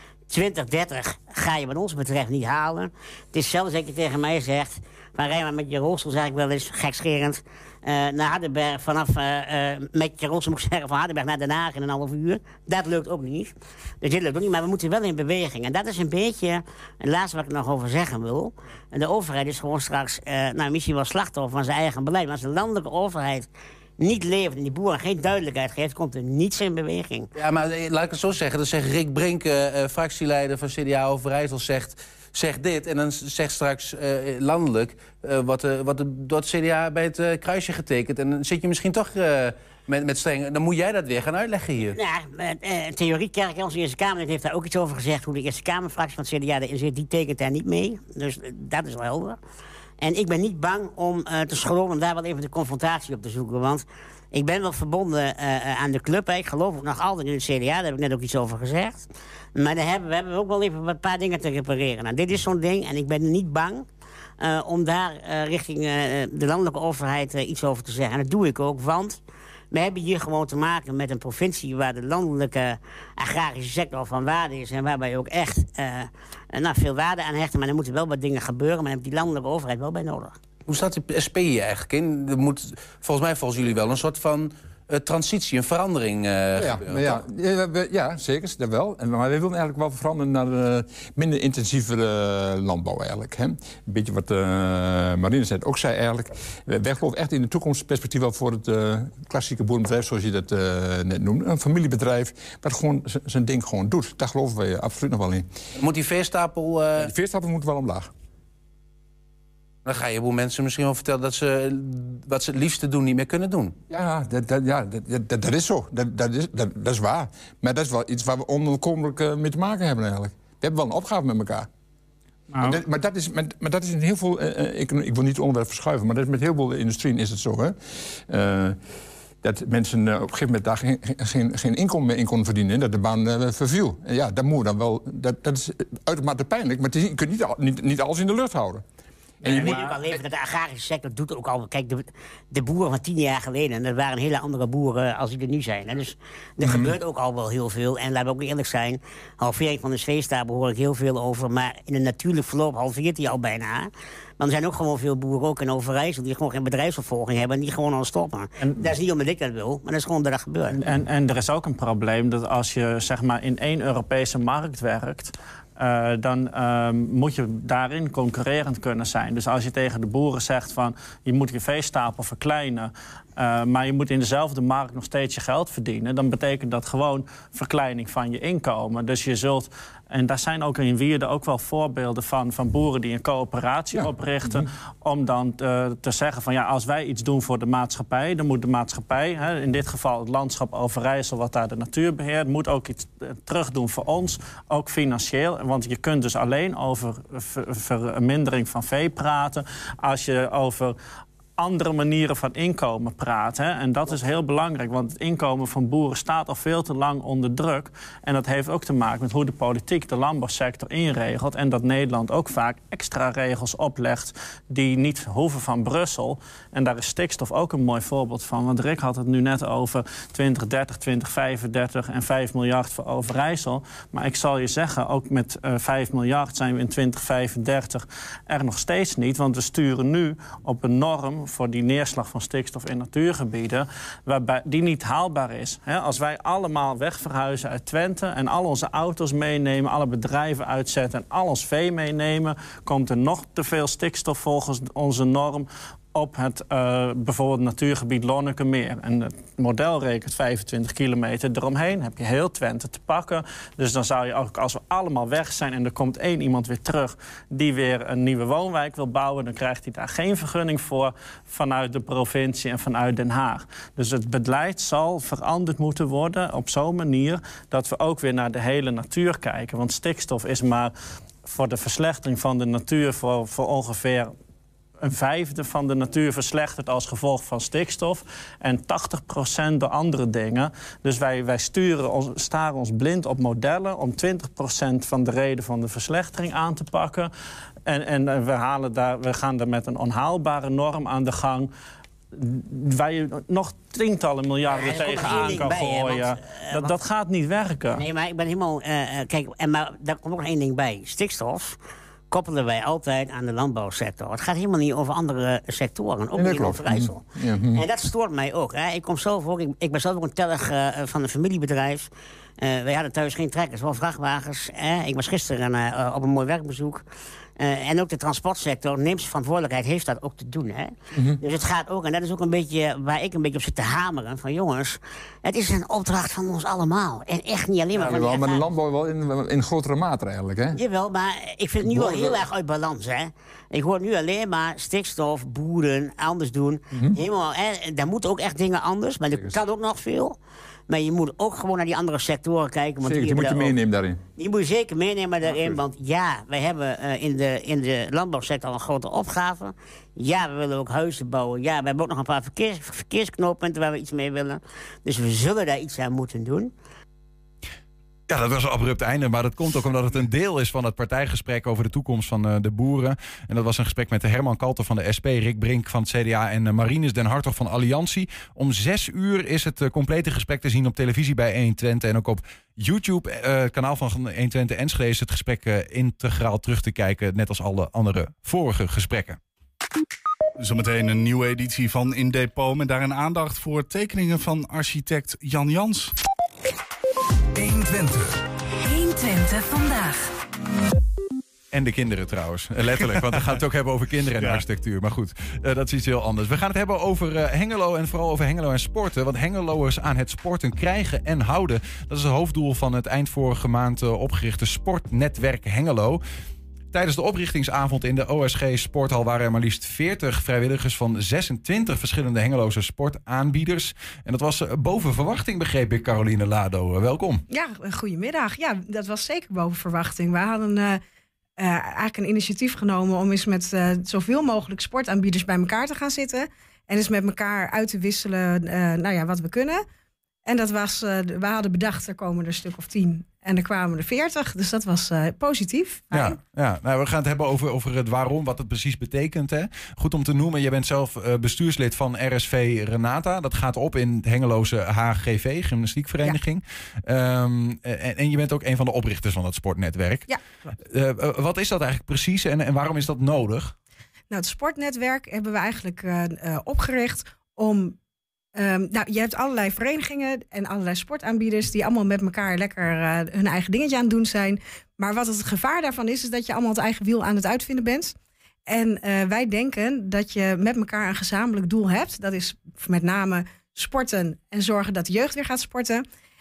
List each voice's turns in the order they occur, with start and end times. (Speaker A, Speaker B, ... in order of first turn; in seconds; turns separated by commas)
Speaker A: 0.3-23.5, Speaker A: 24.0-27.3, Speaker B: 27.4-42.0, Speaker A: 41.8-49.4, Speaker A: 50.0-63.9, Speaker A: 64.4-69.2, Speaker A: 69.7-80.4, Speaker B: 80.7-87.2, Speaker C: 86.6-105.6, Speaker B: 105.8-107.1, Speaker C: 107.0-108.1, Speaker B: 109.8-113.8, Speaker C: 113.9-121.7, Speaker C: 122.5-128.8, Speaker C: 129.4-138.8, Speaker C: 139.4-140.2, Speaker A: 139.4-160.8, Speaker C: 146.6-146.9, Speaker D: 160.8-200.9, Speaker D: 201.6-270.9, Speaker D: 271.4-274.3, Speaker D: 275.0-287.3, Speaker D: 287.9-291.7, Speaker D: 292.3-298.0, Speaker A: 294.7-297.0, Speaker A: 297.9-301.8, Speaker A: 302.3-312.1, Speaker C: 306.3-307.8, Speaker A: 312.6-317.0, Speaker A: 317.6-328.7, Speaker C: 321.1-321.4, Speaker C: 327.9-330.8, Speaker A: 330.8-340.4, Speaker C: 331.8-332.5, Speaker A: 340.9-343.8, Speaker C: 343.0-344.2, Speaker A: 344.4-356.7, Speaker C: 345.5-345.7, Speaker E: 358.3-379.4, Speaker F: 380.6-386.1, Speaker G: 387.6-390.3, Speaker E: 391.7-406.2, Speaker E: 406.9-417.4, Speaker H: 417.5-421.0, Speaker H: 421.6-429.8, Speaker H: 430.4-436.4, Speaker E: 436.1-450.3, Speaker E: 450.8-453.8, Speaker H: 454.3-458.0, Speaker H: 458.6-468.1, Speaker H: 468.7-476.0